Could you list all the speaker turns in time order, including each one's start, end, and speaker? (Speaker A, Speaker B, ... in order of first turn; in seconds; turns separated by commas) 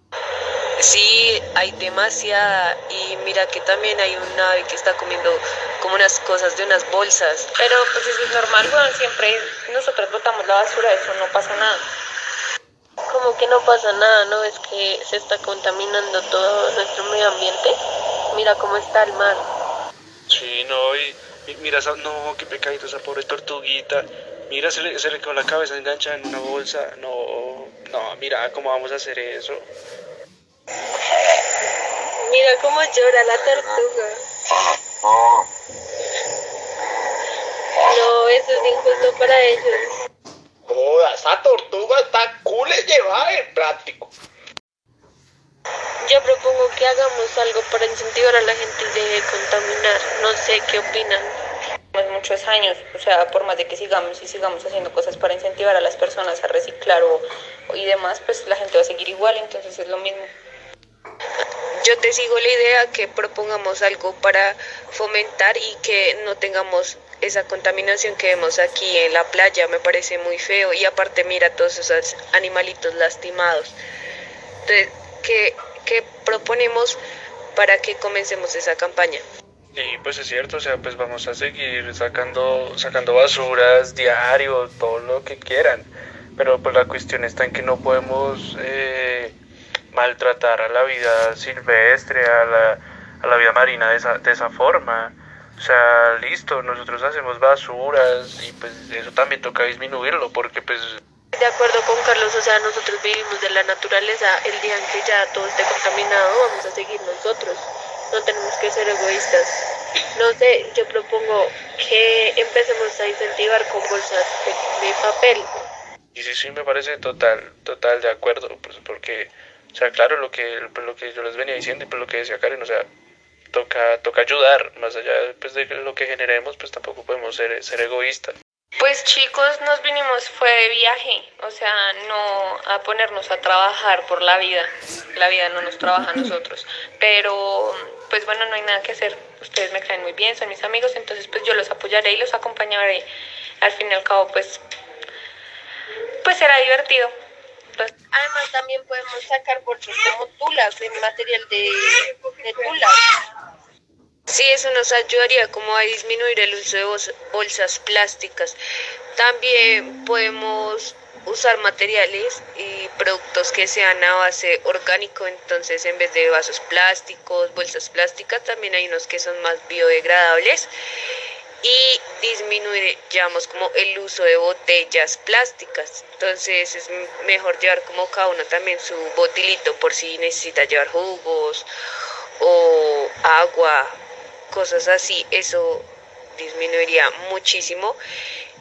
Speaker A: 0.8-7.5, Speaker B: 7.6-11.8, Speaker C: 13.1-17.8, Speaker C: 18.3-19.4, Speaker D: 20.3-29.7, Speaker C: 32.2-34.2, Speaker C: 37.8-39.9, Speaker E: 40.7-44.1, Speaker C: 46.0-51.4, Speaker B: 51.9-60.3, Speaker A: 61.8-73.8, Speaker A: 74.6-77.0, Speaker A: 77.6-79.2, Speaker D: 79.8-89.4, Speaker D: 89.9-101.0, Speaker C: 101.3-109.6, Speaker C: 110.1-115.5, Speaker D: 116.1-122.9, Speaker D: 123.5-128.3, Speaker B: 128.8-143.1, Speaker B: 143.6-144.6, Speaker B: 146.2-147.1, Speaker C: 148.1-153.0, Speaker A: 154.3-158.6, Speaker A: 159.2-170.7, Speaker A: 171.6-181.7, Speaker A: 182.4-183.9, Speaker A: 184.5-188.0